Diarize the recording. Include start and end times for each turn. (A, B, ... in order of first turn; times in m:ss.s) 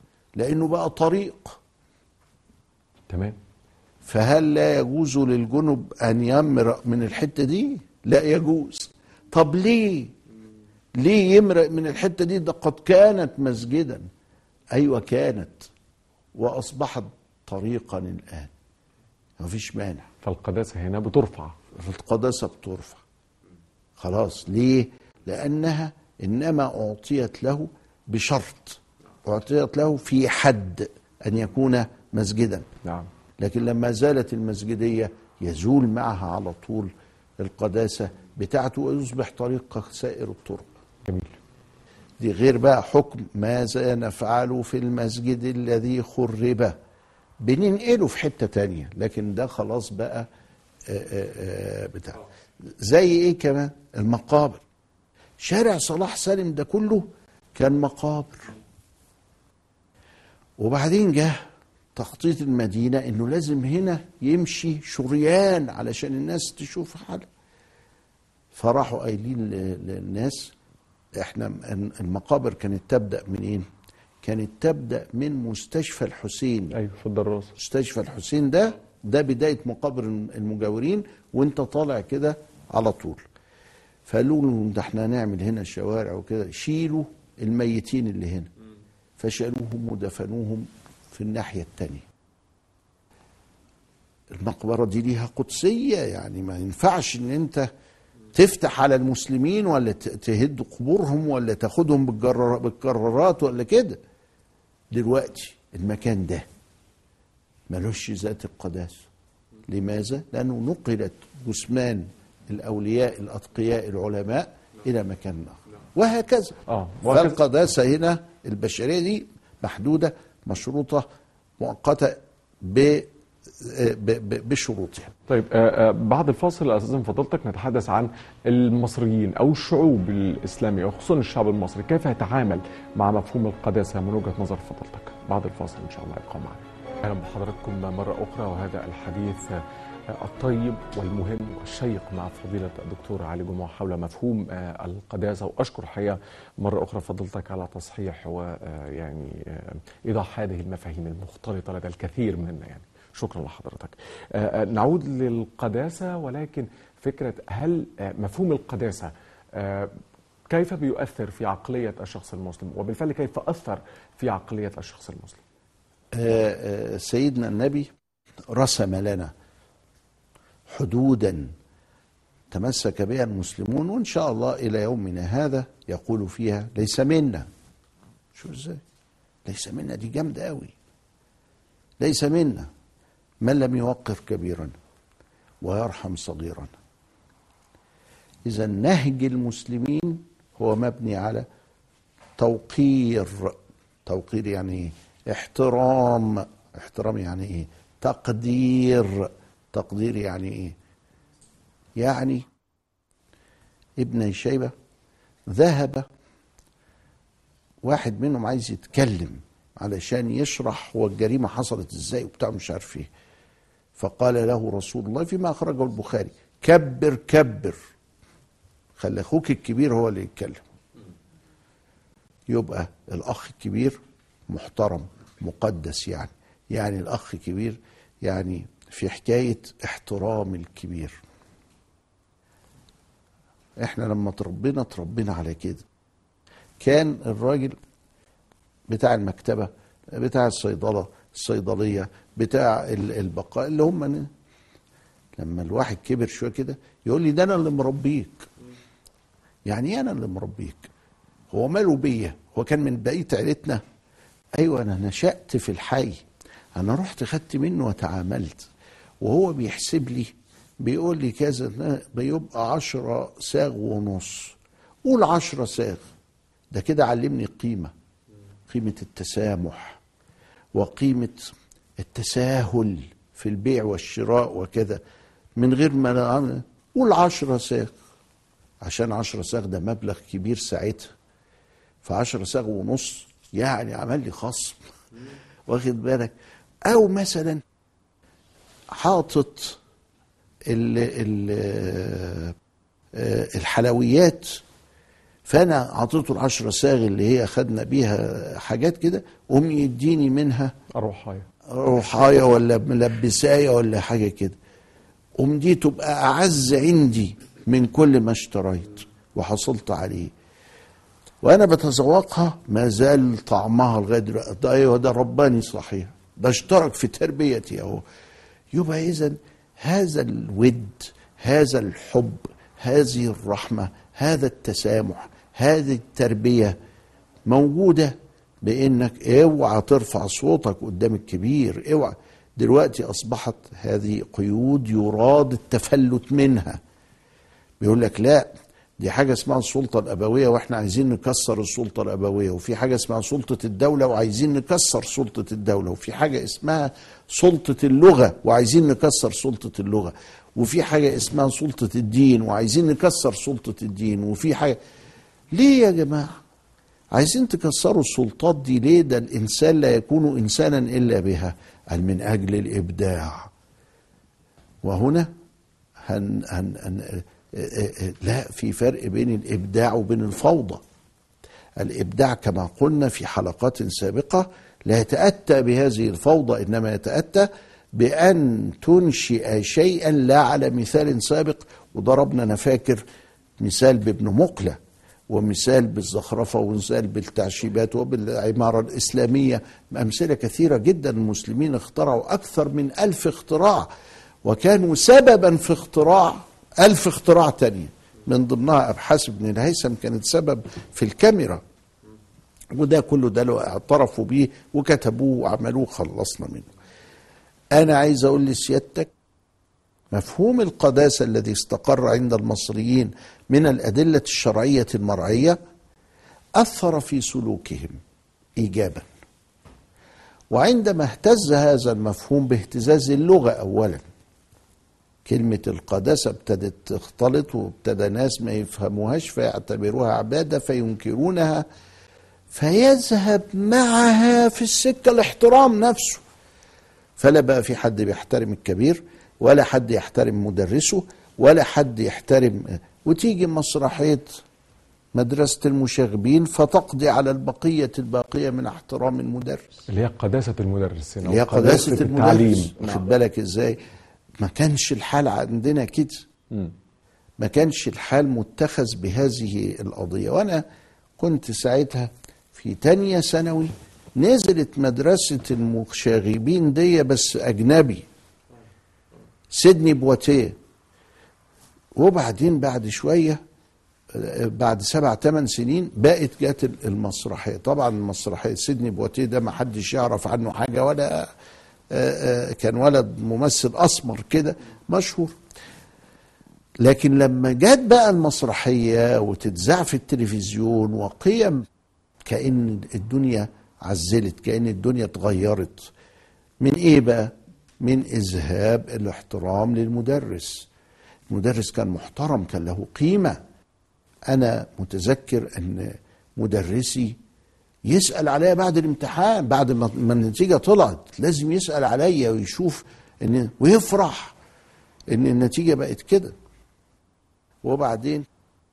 0:00.4-0:01.6 A
0:03.1-0:03.4 B
0:04.0-0:10.1 A
0:11.0-0:14.0 A
0:14.7-0:15.7 A
0:16.4-0:18.5 A
0:19.4-0:20.1 A
0:20.2-0:21.6 B
0:21.7-0:23.0 A
0:24.0-0:32.7 A
0:32.8-0:33.1 B
0:33.4-0:40.7 A
0:41.1-0:41.3 B
0:42.2-0:46.8 A
0:47.4-0:50.3 A
0:50.9-0:52.2 A
0:52.8-0:54.6 A
0:55.4-0:58.5 A
1:00.6-1:01.4 A
1:02.0-1:07.3 A
1:08.5-1:10.5 A
1:11.2-1:13.7 A
1:14.2-1:16.8 A
1:16.7-1:17.5 B
1:17.6-1:23.2 A
1:24.1-1:28.5 A
1:29.2-1:32.1 A
1:34.3-1:37.7 A
1:38.3-1:44.0 A
1:44.9-1:46.5 A
1:47.7-1:49.0 A
1:49.7-2:01.1 A
1:56.7-1:57.4 B
2:01.6-2:05.1 A
2:05.3-2:40.0 B
2:40.5-2:45.4 B
2:46.1-2:47.9 A
2:48.5-2:49.3 A
2:50.7-2:51.5 A
2:52.5-2:57.5 A
2:58.4-2:58.8 A
2:59.5-3:00.7 A
3:02.0-3:02.7 A
3:03.4-3:04.7 A
3:05.6-3:06.7 A
3:08.5-3:11.5 A
3:12.4-3:20.8 A
3:22.0-3:22.5 A
3:24.0-3:24.7 A
3:25.5-3:26.1 A
3:27.8-3:33.1 A
3:34.0-3:37.8 A
3:39.0-3:40.6 A
3:42.5-3:51.2 A
3:53.8-3:55.9 A
3:56.8-3:57.8 A
3:58.9-4:04.3 A
4:05.4-4:08.5 A
4:09.7-4:10.9 A
4:11.5-4:13.8 A
4:14.6-4:16.2 A
4:16.8-4:18.7 A
4:19.2-4:26.0 A
4:26.7-4:27.9 A
4:28.7-4:30.0 A
4:30.7-4:35.0 A
4:35.6-4:37.9 A
4:38.8-4:41.1 A
4:42.0-4:44.8 A
4:45.7-4:46.3 A
4:46.9-4:47.6 A
4:48.9-4:49.8 A
4:50.7-4:52.6 A
4:53.1-4:54.6 A
4:55.4-5:00.7 A
5:00.9-5:01.4 B
5:01.7-5:04.6 A
5:05.4-5:10.3 A
5:11.4-5:18.0 A
5:18.7-5:26.8 A
5:27.5-5:36.8 A
5:37.8-5:54.8 A
5:55.5-5:56.3 A
5:57.1-6:03.5 A
6:04.8-6:05.3 A
6:06.1-6:10.8 A
6:11.8-6:23.0 A
6:23.6-6:24.8 A
6:25.3-6:33.9 A
6:34.4-6:41.6 A
6:42.7-6:46.7 A
6:47.7-6:49.1 A
6:50.1-6:55.6 A
6:56.6-6:58.0 A
6:58.6-6:59.1 A
7:00.5-7:04.0 A
7:05.3-7:11.6 A
7:12.5-7:16.2 A
7:17.2-7:24.3 A
7:25.1-7:29.6 A
7:29.9-7:33.0 B
7:31.2-7:33.8 A
7:34.4-7:36.3 A
7:37.4-7:40.6 A
7:41.2-7:48.1 A
7:49.5-7:50.6 A
7:52.0-7:53.4 A
7:54.1-8:01.3 A
8:01.9-8:05.4 A
8:06.8-8:11.6 A
8:12.2-8:15.9 A
8:16.6-8:20.7 A
8:21.3-8:23.4 A
8:24.3-8:27.2 A
8:27.9-8:34.4 A
8:35.1-8:36.4 A
8:37.6-8:38.3 A